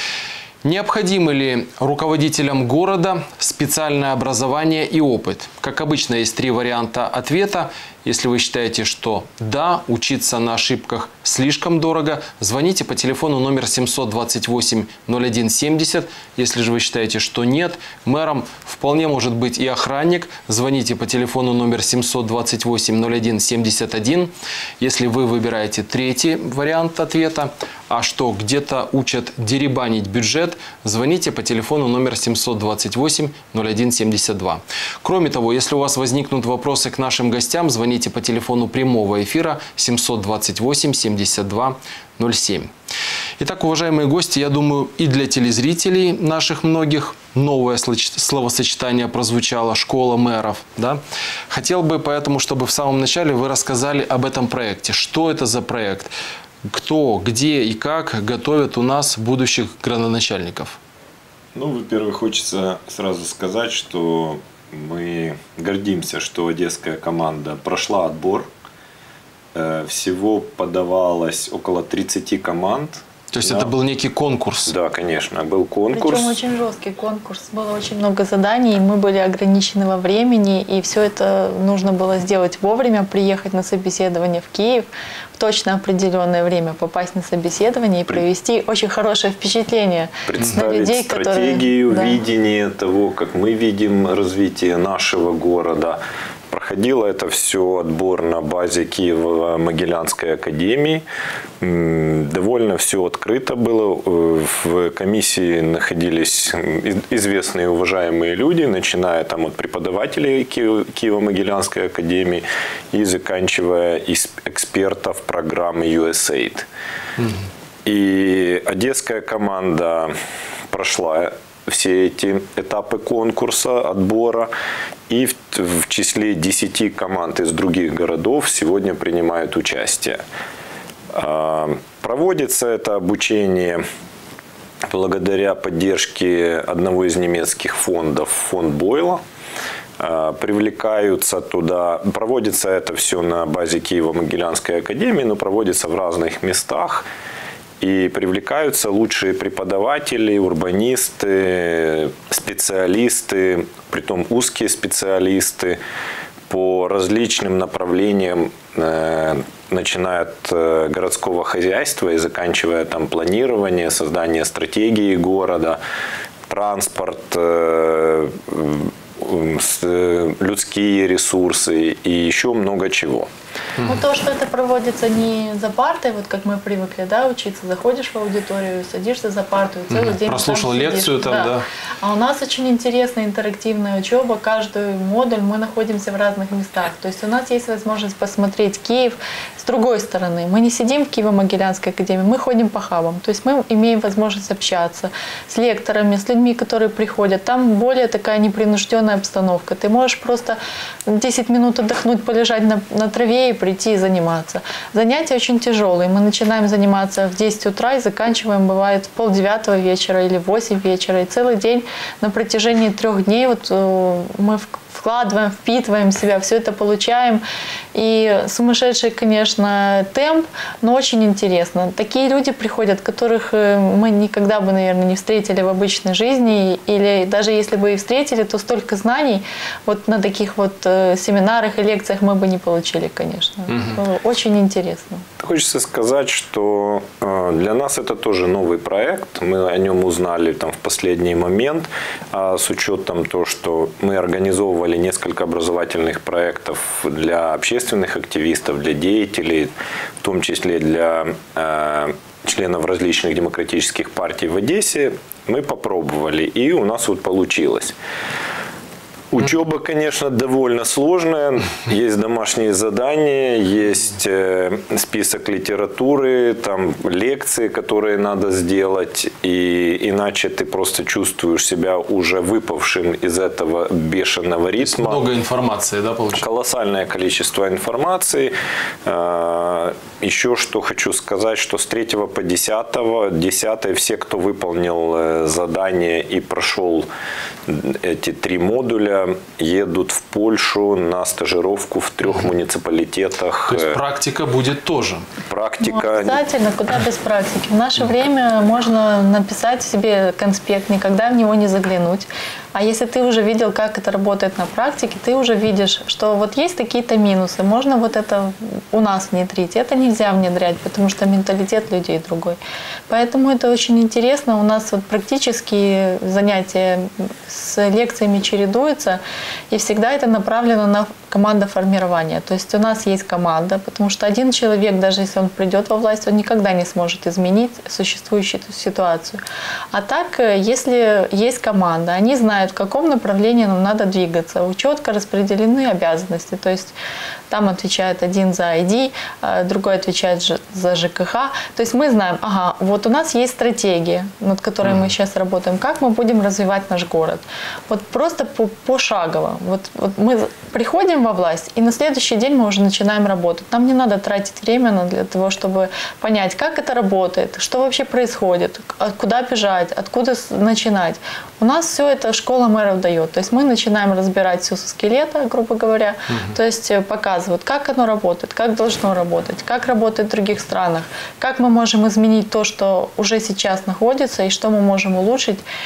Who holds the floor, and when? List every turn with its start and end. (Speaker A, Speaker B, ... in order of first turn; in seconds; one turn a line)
Speaker A: 0.6-42.7
Speaker A: 43.4-56.1
Speaker A: 56.7-60.8
Speaker B: 61.5-68.5
Speaker B: 69.5-73.7
Speaker A: 73.3-74.7
Speaker B: 74.7-76.4
Speaker C: 75.9-92.2
Speaker B: 90.3-101.0
Speaker B: 101.6-116.7
Speaker B: 117.8-120.1
Speaker B: 120.7-124.5
Speaker B: 125.1-130.2
Speaker B: 131.1-133.8
Speaker B: 134.9-139.2
Speaker B: 140.0-147.1
Speaker B: 147.8-155.8
Speaker B: 156.5-165.8
Speaker B: 166.5-173.3
Speaker C: 173.9-217.4
Speaker A: 179.9-181.7
Speaker C: 217.9-235.2
Speaker A: 233.7-234.0
Speaker B: 235.4-258.0
Speaker B: 259.3-275.2
Speaker A: 274.8-276.4
Speaker B: 276.4-287.1
Speaker B: 287.7-294.0
Speaker A: 293.7-295.3
Speaker B: 295.5-296.4
Speaker C: 295.8-329.4
Speaker C: 329.9-336.9
Speaker C: 337.5-375.6
Speaker A: 366.3-366.6